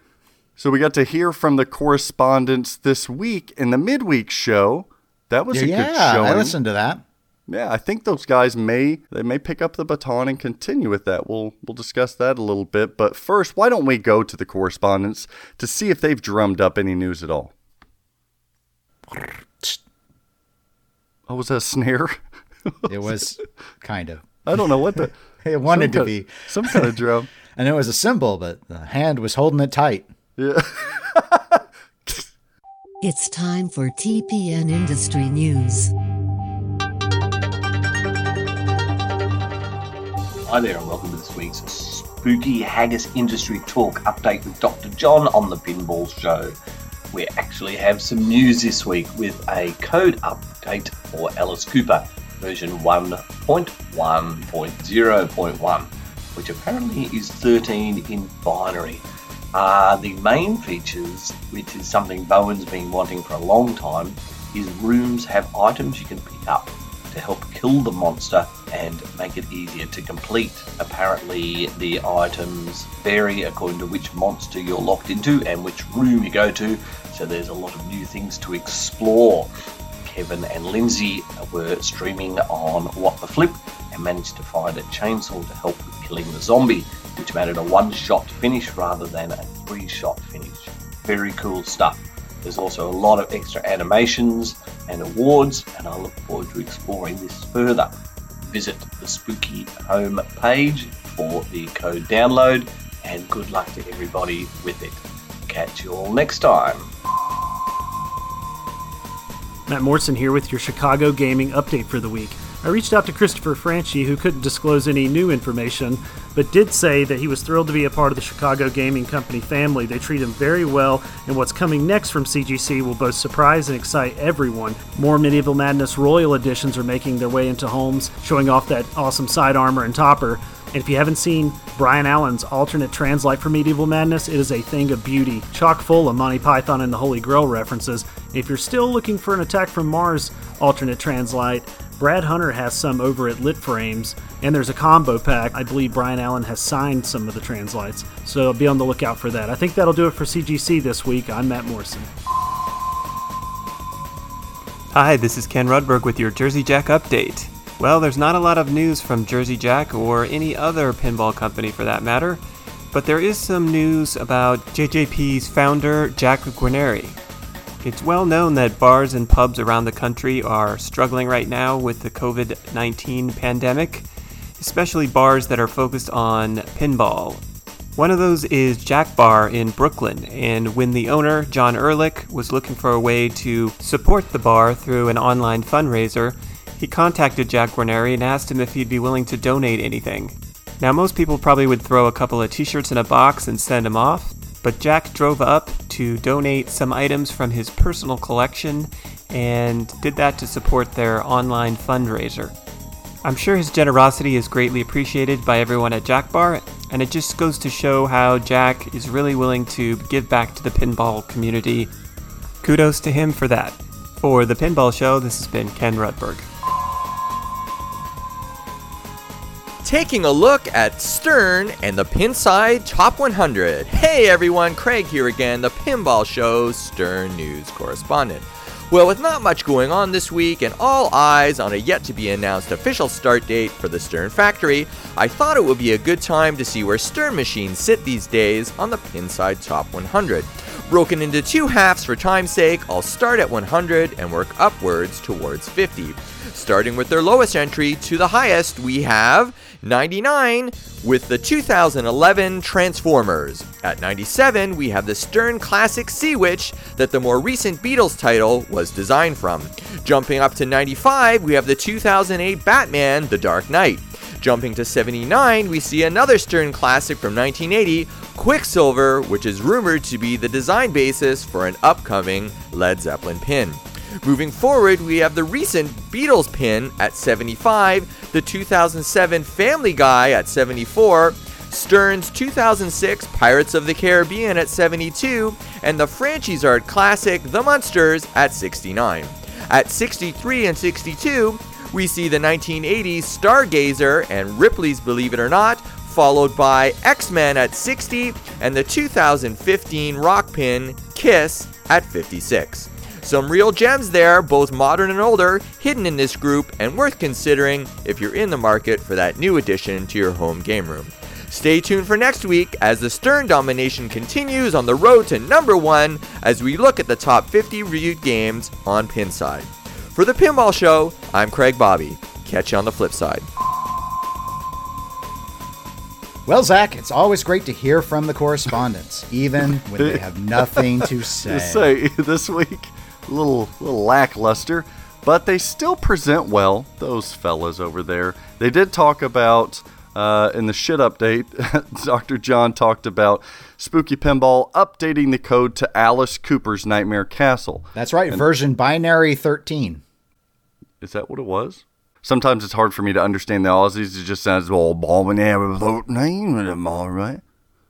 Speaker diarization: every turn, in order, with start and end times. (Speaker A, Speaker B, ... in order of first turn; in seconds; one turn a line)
Speaker A: 0.6-6.5
Speaker B: 5.5-7.0
Speaker A: 7.5-17.5
Speaker B: 19.1-19.8
Speaker A: 21.3-23.2
Speaker B: 22.9-24.4
Speaker A: 24.4-25.1
Speaker B: 25.0-26.9
Speaker A: 25.6-27.3
Speaker B: 27.5-30.1
Speaker A: 30.4-32.2
Speaker C: 33.0-35.9
Speaker D: 40.5-46.5
Speaker D: 47.1-79.5
Speaker D: 80.0-97.9
Speaker D: 98.4-106.9
Speaker E: 109.7-152.1
Speaker F: 154.9-162.4
Speaker F: 162.9-167.2
Speaker F: 167.8-174.1
Speaker F: 174.6-177.4
Speaker F: 177.9-202.5
Speaker F: 203.2-211.9
Speaker F: 212.6-216.4
Speaker G: 219.8-323.5
Speaker B: 326.5-331.9
Speaker A: 329.7-348.4
Speaker B: 347.9-350.0
Speaker A: 351.0-357.4